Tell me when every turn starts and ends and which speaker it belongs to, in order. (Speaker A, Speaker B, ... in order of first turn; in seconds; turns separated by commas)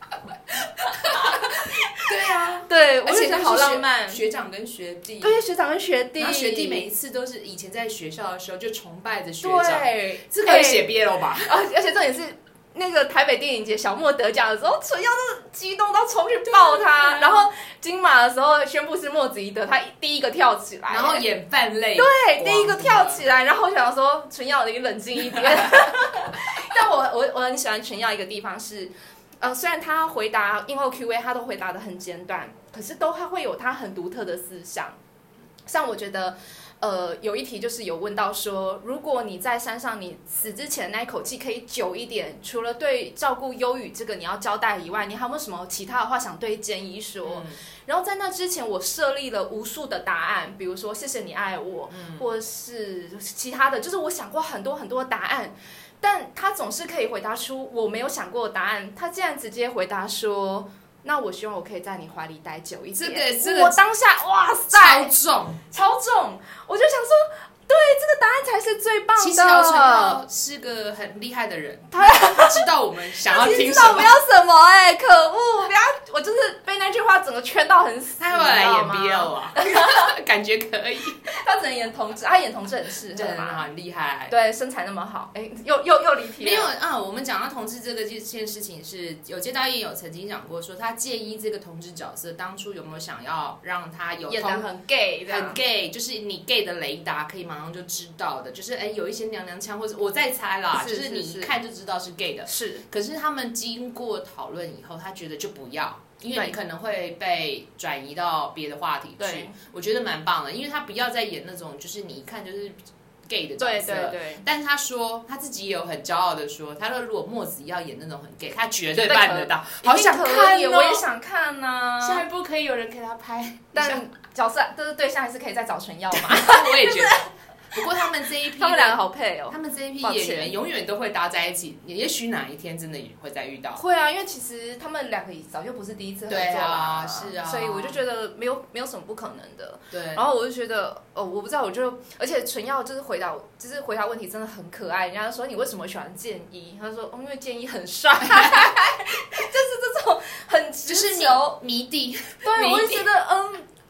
Speaker A: 0.8-2.0, Speaker B: 1.0-1.5, Speaker B: 2.0-5.4, Speaker A: 2.6-4.2, Speaker A: 5.2-6.8, Speaker B: 6.2-11.5, Speaker A: 9.4-10.9, Speaker A: 11.4-21.2, Speaker B: 16.5-17.5, Speaker B: 20.9-23.2, Speaker A: 21.9-35.0, Speaker B: 25.3-25.8, Speaker A: 35.7-65.1, Speaker B: 47.2-47.6, Speaker B: 51.9-52.2, Speaker B: 63.0-63.8, Speaker B: 64.7-65.6, Speaker A: 65.7-70.2, Speaker B: 69.2-74.2, Speaker A: 71.9-72.7, Speaker A: 73.2-80.1, Speaker B: 78.2-81.2, Speaker A: 81.2-83.7, Speaker B: 83.1-84.3, Speaker A: 84.3-86.7, Speaker B: 86.4-94.7, Speaker A: 94.3-95.6, Speaker B: 95.3-121.0, Speaker A: 100.7-101.5, Speaker A: 102.5-102.8, Speaker A: 109.2-109.5, Speaker A: 113.6-114.4, Speaker A: 118.9-122.2, Speaker B: 122.0-124.0, Speaker A: 123.7-127.2, Speaker B: 126.1-133.8, Speaker A: 128.6-130.5, Speaker A: 133.7-151.6, Speaker B: 136.3-138.0, Speaker B: 139.9-140.2, Speaker B: 148.4-148.7, Speaker B: 150.9-153.1, Speaker A: 152.4-153.7